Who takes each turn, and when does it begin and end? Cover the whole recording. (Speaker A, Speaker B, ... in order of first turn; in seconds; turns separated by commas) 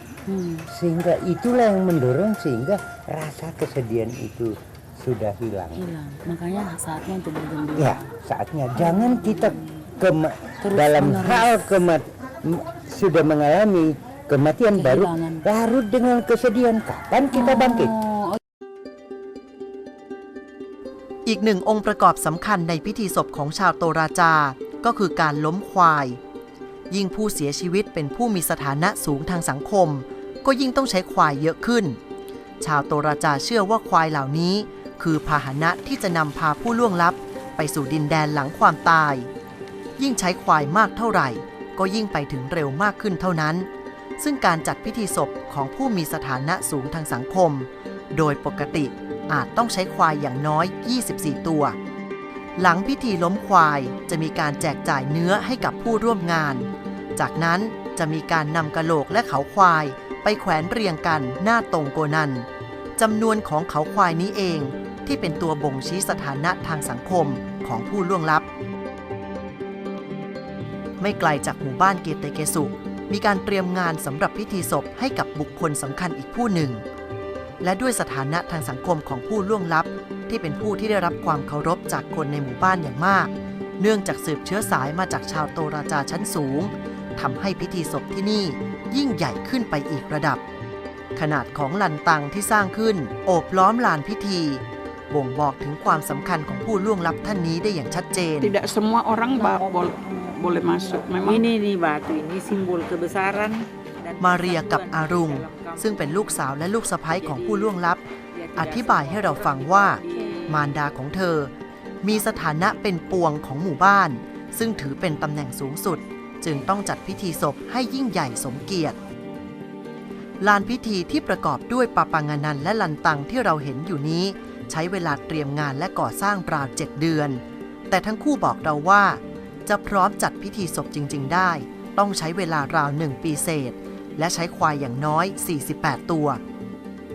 Speaker A: 0.3-0.7, Speaker B: 0.7-5.9, Speaker A: 5.8-8.1, Speaker B: 7.7-18.0, Speaker A: 8.8-9.8, Speaker A: 10.6-11.5, Speaker A: 14.7-15.4, Speaker A: 17.3-18.4, Speaker C: 21.2-26.2, Speaker C: 26.9-32.0, Speaker C: 32.6-39.3, Speaker C: 40.0-43.7, Speaker C: 44.2-51.8, Speaker C: 52.6-68.5, Speaker C: 71.0-76.8, Speaker C: 77.6-90.4, Speaker C: 91.2-98.5, Speaker D: 98.4-101.5, Speaker A: 100.0-100.3, Speaker E: 101.3-105.8, Speaker C: 104.2-108.0, Speaker E: 108.3-109.3, Speaker C: 108.5-119.0, Speaker E: 110.0-110.5, Speaker C: 120.4-136.4